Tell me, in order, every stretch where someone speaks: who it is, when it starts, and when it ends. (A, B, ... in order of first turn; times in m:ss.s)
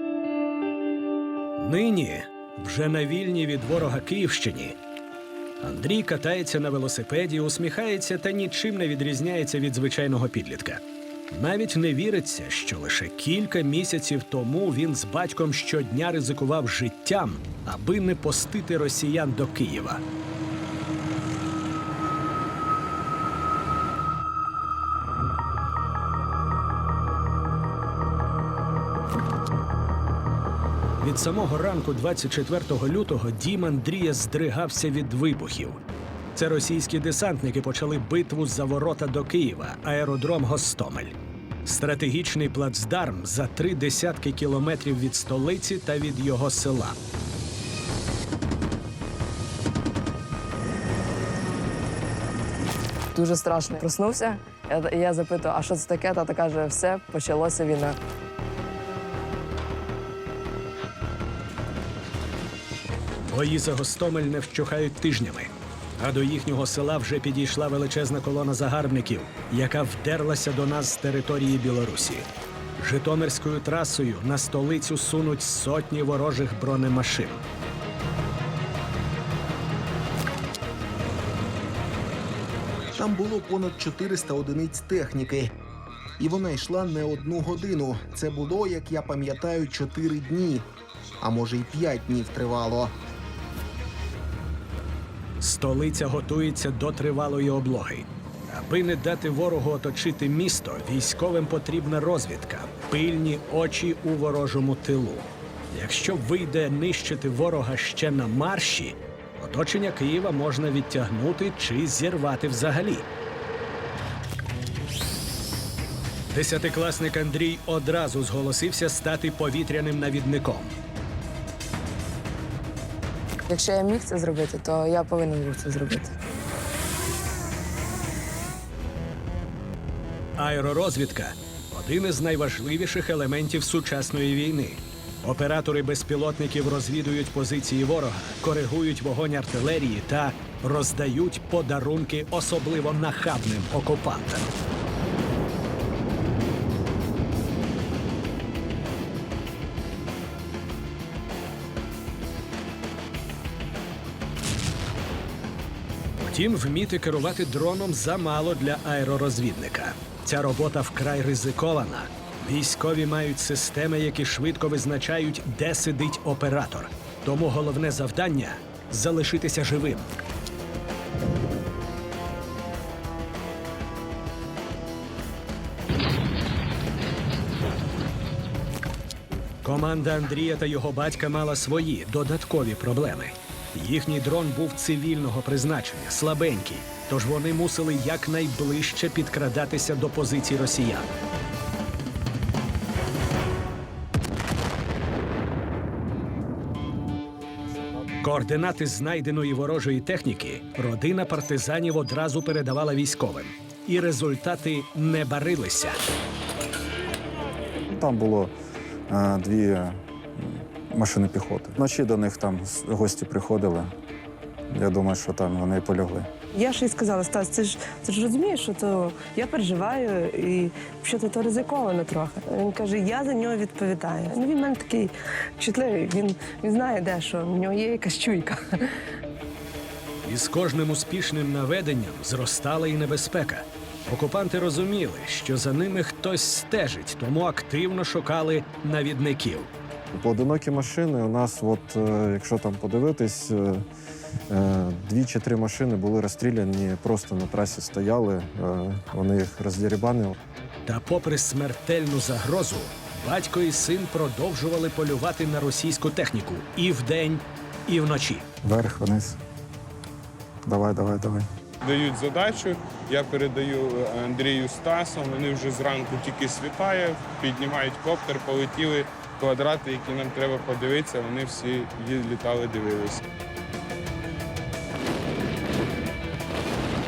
0:01.6-0:04.8 A
0:05.6-0:20.0 A
0:31.0-0:35.8 A
0:36.3-0:47.0 A
0:53.1-0:58.0 B
1:03.2-1:12.3 A
1:12.8-1:17.4 A
1:23.0-1:25.5 C
1:26.2-1:30.7 C
1:31.2-1:32.9 C
1:35.4-1:53.0 A
1:56.3-2:00.7 A
2:03.5-2:06.1 B
2:10.4-2:24.5 A
2:36.2-2:50.1 A
2:59.6-3:11.1 A
3:18.2-3:26.0 A
3:27.8-3:28.5 D
3:29.1-3:33.9 D
3:34.7-3:36.3 D
3:36.5-3:48.6 E
3:50.2-3:59.7 A
4:00.1-4:03.8 D
4:04.5-4:10.4 D
4:10.8-4:18.4 A
4:18.6-4:19.4 D
4:20.6-4:21.4 D
4:21.8-4:33.2 F